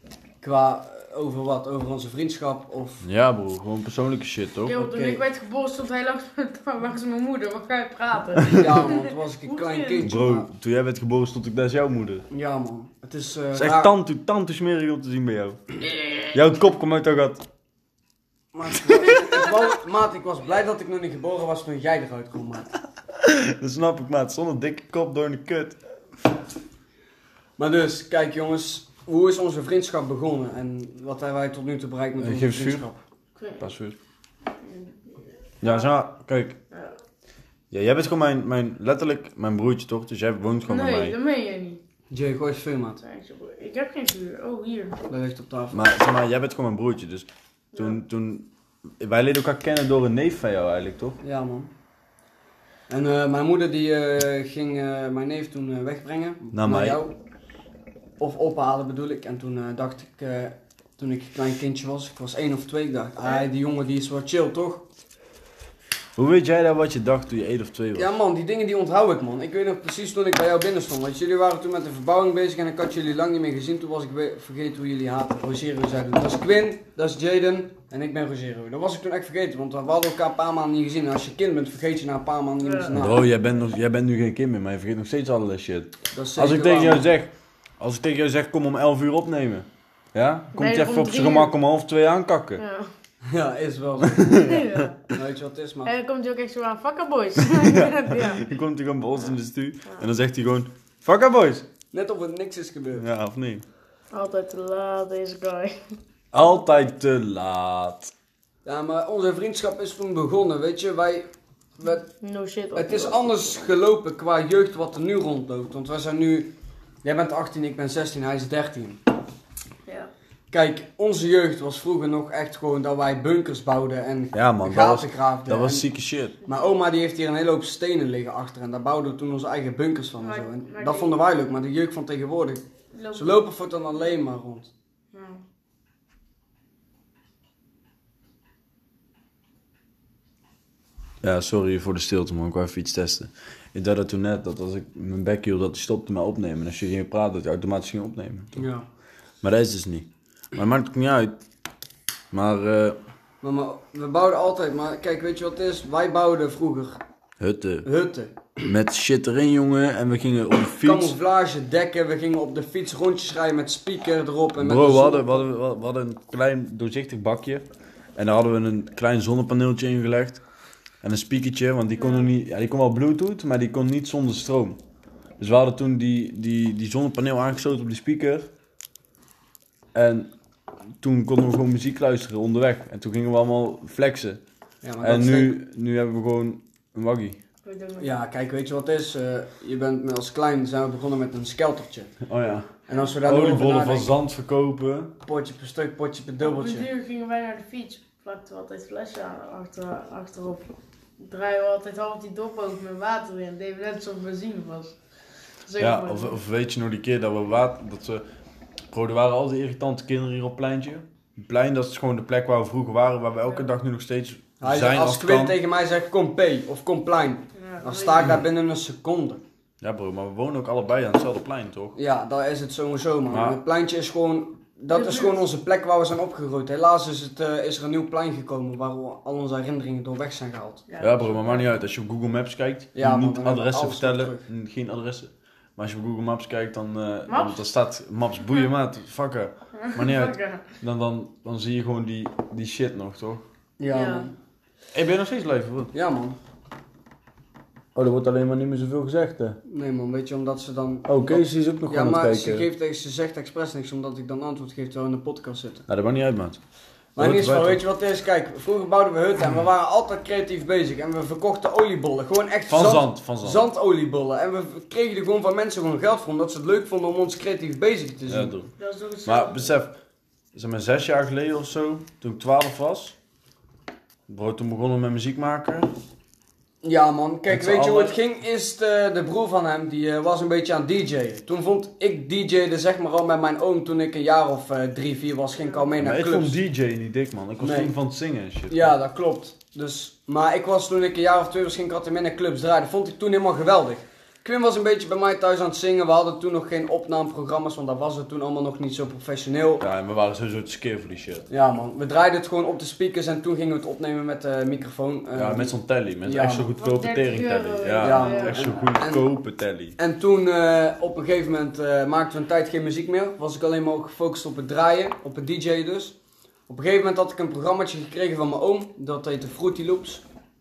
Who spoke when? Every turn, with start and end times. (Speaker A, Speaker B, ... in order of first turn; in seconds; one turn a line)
Speaker A: 0.4-3.1
Speaker B: 3.0-4.9
Speaker C: 4.6-10.1
Speaker A: 4.9-5.2
Speaker A: 8.5-10.5
Speaker B: 10.0-12.2
Speaker A: 12.3-13.9
Speaker B: 13.5-17.4
Speaker A: 18.5-22.7
Speaker B: 23.1-25.8
Speaker A: 27.6-33.0
Speaker B: 32.2-32.9
Speaker C: 33.4-33.7
Speaker B: 33.6-34.0
Speaker C: 34.6-35.0
Speaker C: 35.6-35.9
Speaker B: 35.6-36.6
Speaker B: 37.7-41.2
Speaker C: 40.7-41.8
Speaker A: 42.1-43.0
Speaker C: 43.0-45.0
Speaker A: 45.1-45.9
Speaker B: 45.7-48.5
Speaker B: 49.0-51.2
Speaker A: 51.2-51.7
Speaker A: 52.9-57.2
Speaker B: 56.5-57.0
Speaker A: 58.2-64.9
Speaker B: 66.2-68.1
Speaker A: 68.0-83.3
Speaker C: 82.6-82.9
Speaker B: 82.9-92.6
Speaker A: 86.1-87.0
Speaker C: 90.5-91.5
Speaker C: 92.6-92.9
Speaker A: 93.3-94.5
Speaker B: 94.0-94.9
Speaker C: 94.4-95.0
Speaker A: 95.1-95.9
Speaker C: 95.8-98.5
Speaker B: 97.4-101.7
Speaker A: 101.9-103.0
Speaker B: 103.0-103.7
Speaker C: 104.1-105.8
Speaker B: 106.3-108.1
Speaker A: 108.7-112.1
Speaker C: 112.2-113.7
Speaker A: 112.8-116.5
Speaker A: 117.0-119.0
Speaker A: 120.5-125.8
Speaker B: 124.3-126.4
Speaker A: 126.5-134.7
Speaker C: 130.2-131.2
Speaker C: 132.9-133.4
Speaker C: 135.1-135.4
Speaker B: 141.2-148.6
Speaker A: 148.6-148.9
Speaker B: 149.4-151.4
Speaker B: 152.3-153.0
Speaker A: 153.4-157.0
Speaker B: 157.4-157.9
Speaker A: 157.8-158.5
Speaker B: 158.6-161.2
Speaker A: 160.8-165.5
Speaker B: 164.6-167.6
Speaker B: 168.2-170.4
Speaker B: 171.0-174.8
Speaker C: 172.0-172.3
Speaker B: 175.4-178.5
Speaker B: 179.9-180.3
Speaker B: 181.0-184.4
Speaker A: 184.8-185.6
Speaker B: 185.0-187.4
Speaker C: 187.7-188.2
Speaker A: 188.0-192.1
Speaker B: 192.3-192.7
Speaker A: 192.9-194.1
Speaker B: 193.2-195.1
Speaker A: 195.2-196.9
Speaker C: 196.4-205.0
Speaker C: 205.7-206.4
Speaker B: 205.8-208.2
Speaker B: 208.9-215.6
Speaker A: 214.6-219.4
Speaker C: 217.6-218.3
Speaker B: 219.8-221.9
Speaker A: 221.9-230.8
Speaker B: 223.3-223.6
Speaker C: 224.9-225.4
Speaker C: 230.9-231.7
Speaker B: 231.0-243.5
Speaker A: 232.9-234.4
Speaker C: 237.3-237.7
Speaker C: 239.7-240.7
Speaker A: 243.8-244.3
Speaker C: 243.9-244.3
Speaker B: 244.9-245.9
Speaker A: 245.9-246.4
Speaker B: 247.9-249.6
Speaker A: 249.7-255.8
Speaker B: 251.1-252.7
Speaker B: 255.9-256.6
Speaker A: 257.2-268.5
Speaker B: 257.2-257.8
Speaker B: 262.7-263.7
Speaker B: 268.3-268.7
Speaker C: 268.8-269.8
Speaker B: 269.3-270.0
Speaker B: 270.5-273.2
Speaker B: 274.3-275.9
Speaker A: 276.8-286.6
Speaker B: 277.5-278.2
Speaker B: 286.0-288.9
Speaker A: 287.6-287.9
Speaker A: 288.7-299.9
Speaker B: 299.8-301.5
Speaker A: 301.5-306.8
Speaker B: 305.3-310.0
Speaker C: 306.8-308.8
Speaker A: 308.0-309.3
Speaker A: 310.0-316.1
Speaker A: 316.7-320.2